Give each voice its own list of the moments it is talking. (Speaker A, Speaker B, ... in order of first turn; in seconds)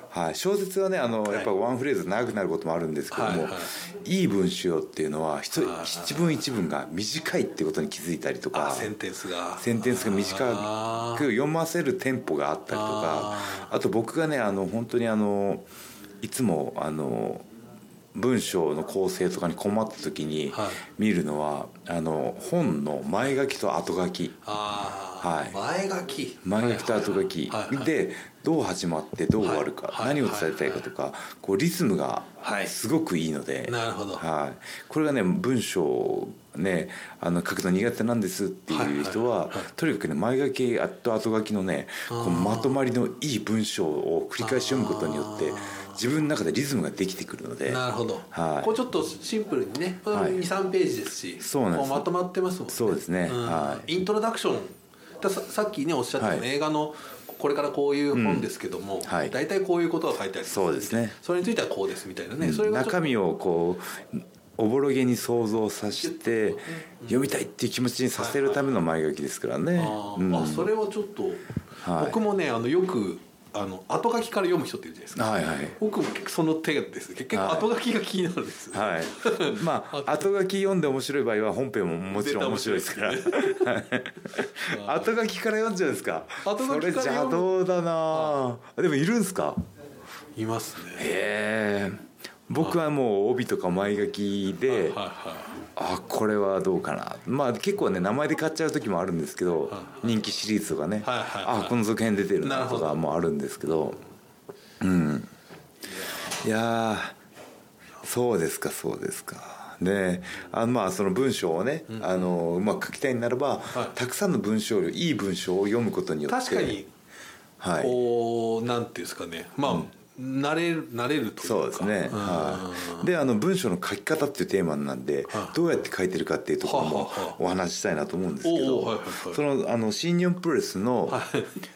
Speaker A: 0.1-8.9, 9.6-15.7, 16.2-17.5, 18.1-24.4, 25.2-25.6, 26.4-48.8, 50.1-50.4, 51.4-52.1, 52.7-53.9, 56.2-56.5, 58.1-58.5, 59.0-59.4, 60.5-61.2, 62.4-70.7, 71.8-72.2, 75.2-75.8, 77.3-77.7, 78.7-89.6, 91.0-95.0, 95.8-104.0, 104.8-105.3, 106.3-107.2, 108.0-116.8, 117.6-118.0, 121.4-131.2
Speaker B: 3.1-3.8, 5.6-6.5, 8.5-11.3, 12.7-13.7, 20.5-20.8, 24.4-27.9, 29.4-30.9, 32.4-32.7, 33.7-34.2, 38.7-39.7, 42.1-42.8, 44.4-46.0, 47.7-63.1, 66.0-67.3, 68.2-68.8, 69.8-80.3, 82.1-83.8, 84.7-85.1, 86.4-87.5, 88.1-88.4, 90.4-91.1, 94.7-95.6, 99.7-100.0, 101.0-101.8, 102.4-103.1, 105.9-106.3, 111.9-112.3, 116.3-116.9, 117.8-123.1, 125.3-125.6, 126.6-127.4, 128.4-129.4, 131.1-131.5